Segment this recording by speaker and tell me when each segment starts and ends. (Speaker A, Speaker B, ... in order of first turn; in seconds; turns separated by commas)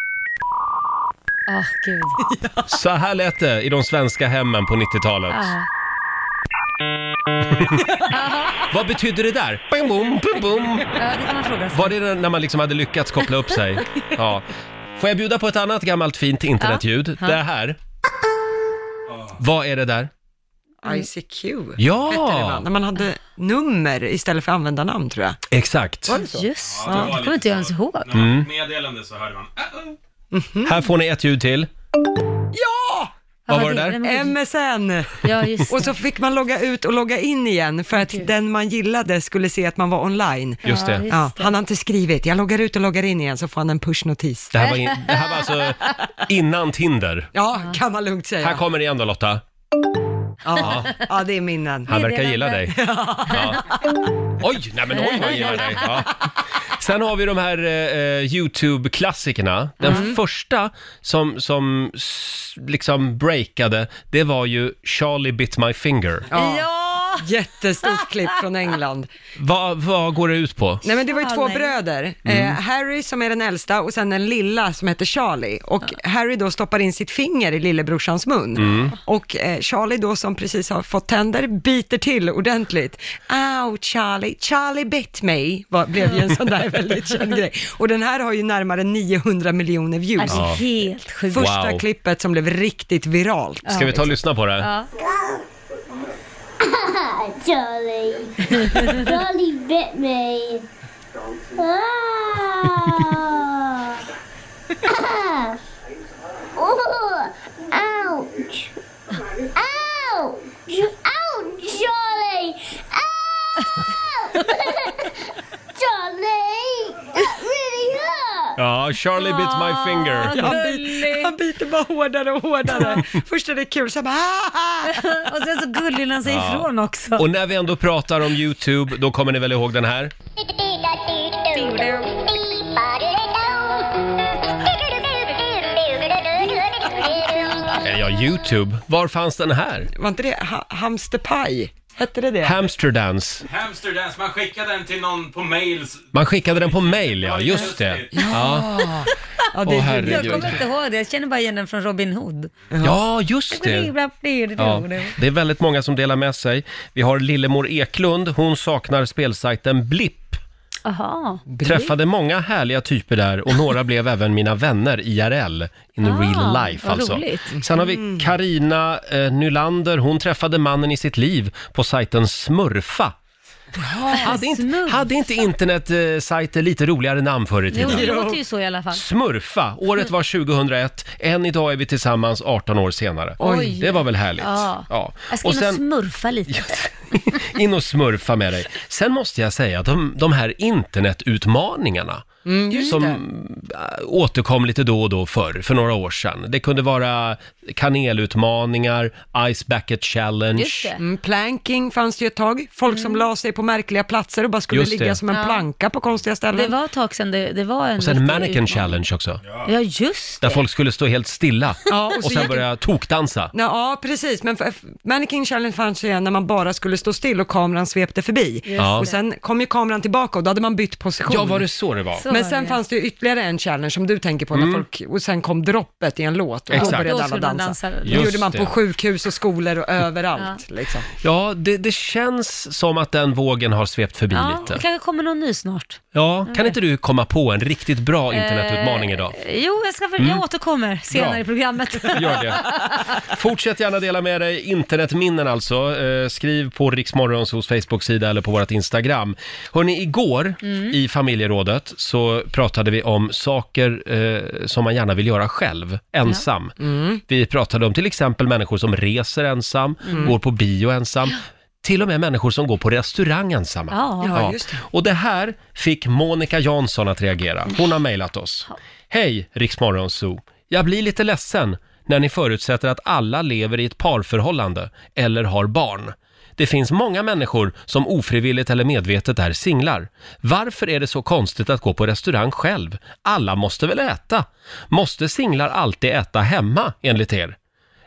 Speaker A: 1.5-2.2, Speaker B: 2.2-2.7, Speaker C: 2.7-5.5, Speaker A: 5.3-5.7, Speaker C: 7.5-8.0, Speaker A: 8.1-8.7, Speaker C: 8.6-11.0, Speaker A: 10.9-11.9, Speaker C: 11.7-17.8, Speaker A: 16.6-17.4, Speaker D: 19.1-19.4, Speaker C: 19.4-20.1, Speaker B: 20.8-25.4, Speaker C: 21.8-22.6, Speaker C: 25.5-26.1, Speaker B: 26.1-27.2, Speaker A: 26.1-28.1, Speaker D: 26.7-29.9, Speaker C: 28.1-28.5, Speaker B: 30.3-30.8, Speaker C: 30.6-31.7, Speaker B: 32.5-33.1, Speaker A: 33.5-34.4, Speaker C: 33.5-34.0, Speaker B: 34.0-44.5, Speaker A: 35.2-35.9, Speaker A: 38.0-38.3, Speaker C: 40.6-41.0, Speaker A: 40.6-41.5, Speaker C: 44.5-47.3, Speaker A: 44.6-45.3, Speaker B: 47.3-48.6, Speaker C: 48.4-49.4, Speaker B: 50.4-51.9, Speaker C: 50.6-51.0, Speaker A: 51.9-52.8, Speaker C: 51.9-53.6, Speaker B: 52.7-54.0, Speaker C: 54.4-56.2, Speaker A: 55.0-56.0, Speaker C: 56.7-66.3, Speaker A: 59.8-60.1, Speaker B: 59.8-60.2, Speaker B: 66.3-69.1, Speaker A: 66.3-67.3, Speaker C: 69.3-70.9, Speaker B: 70.8-90.5, Speaker A: 71.1-71.7, Speaker C: 72.2-72.6, Speaker C: 78.6-78.9, Speaker A: 90.2-91.5, Speaker C: 90.3-90.6, Speaker B: 91.3-94.1, Speaker C: 91.3-91.8, Speaker A: 93.7-94.0, Speaker C: 93.7-94.7, Speaker A: 94.6-94.9, Speaker E: 95.0-95.4, Speaker E: 96.6-100.6, Speaker A: 98.5-99.1, Speaker E: 101.5-103.9, Speaker E: 104.8-105.6, Speaker E: 106.5-108.7, Speaker E: 109.5-114.9, Speaker E: 115.8-118.5, Speaker C: 118.6-120.4, Speaker A: 119.2-121.3, Speaker B: 120.2-125.2, Speaker A: 124.9-127.3, Speaker C: 126.2-130.1, Speaker E: 130.5-131.7, Speaker A: 131.5-132.1, Speaker E: 132.4-133.9, Speaker E: 134.9-137.7, Speaker C: 137.8-139.9, Speaker B: 139.9-142.6, Speaker C: 142.4-143.4, Speaker D: 143.4-148.4, Speaker C: 146.1-148.9, Speaker B: 148.1-150.6, Speaker C: 149.6-150.6, Speaker A: 149.8-152.5, Speaker B: 152.7-153.0, Speaker C: 152.8-153.9, Speaker A: 153.5-155.2, Speaker C: 154.6-160.4, Speaker A: 160.8-161.7, Speaker B: 161.5-161.9, Speaker C: 161.6-173.1, Speaker A: 166.0-167.5, Speaker B: 167.5-168.3, Speaker B: 173.8-174.3, Speaker C: 174.1-178.2, Speaker A: 174.1-175.3, Speaker A: 177.7-179.0, Speaker B: 177.8-178.4, Speaker C: 178.9-185.8, Speaker B: 183.4-183.8, Speaker A: 183.4-186.8, Speaker C: 186.5-200.9, Speaker B: 192.4-193.2, Speaker A: 192.7-193.0, Speaker A: 200.5-201.0, Speaker B: 201.0-206.7, Speaker A: 202.9-203.2, Speaker C: 204.7-205.2, Speaker A: 205.3-205.6, Speaker A: 206.5-209.0, Speaker C: 208.0-209.4, Speaker A: 209.6-210.6, Speaker C: 210.4-213.5, Speaker B: 211.9-212.7, Speaker B: 213.5-221.7, Speaker A: 218.7-219.2, Speaker C: 218.8-219.1, Speaker C: 221.3-222.2, Speaker A: 222.2-222.8, Speaker B: 222.3-231.1, Speaker C: 224.5-224.8, Speaker C: 226.7-227.1, Speaker A: 226.7-228.3, Speaker C: 228.1-228.7, Speaker C: 231.2-234.8, Speaker A: 234.3-236.8, Speaker C: 236.1-239.3, Speaker A: 238.3-243.2, Speaker C: 240.2-240.4, Speaker C: 241.1-241.4, Speaker C: 242.1-256.7, Speaker A: 250.6-250.9, Speaker B: 256.8-257.2, Speaker C: 257.3-287.6, Speaker A: 260.0-260.3, Speaker A: 263.9-264.3, Speaker B: 264.2-264.8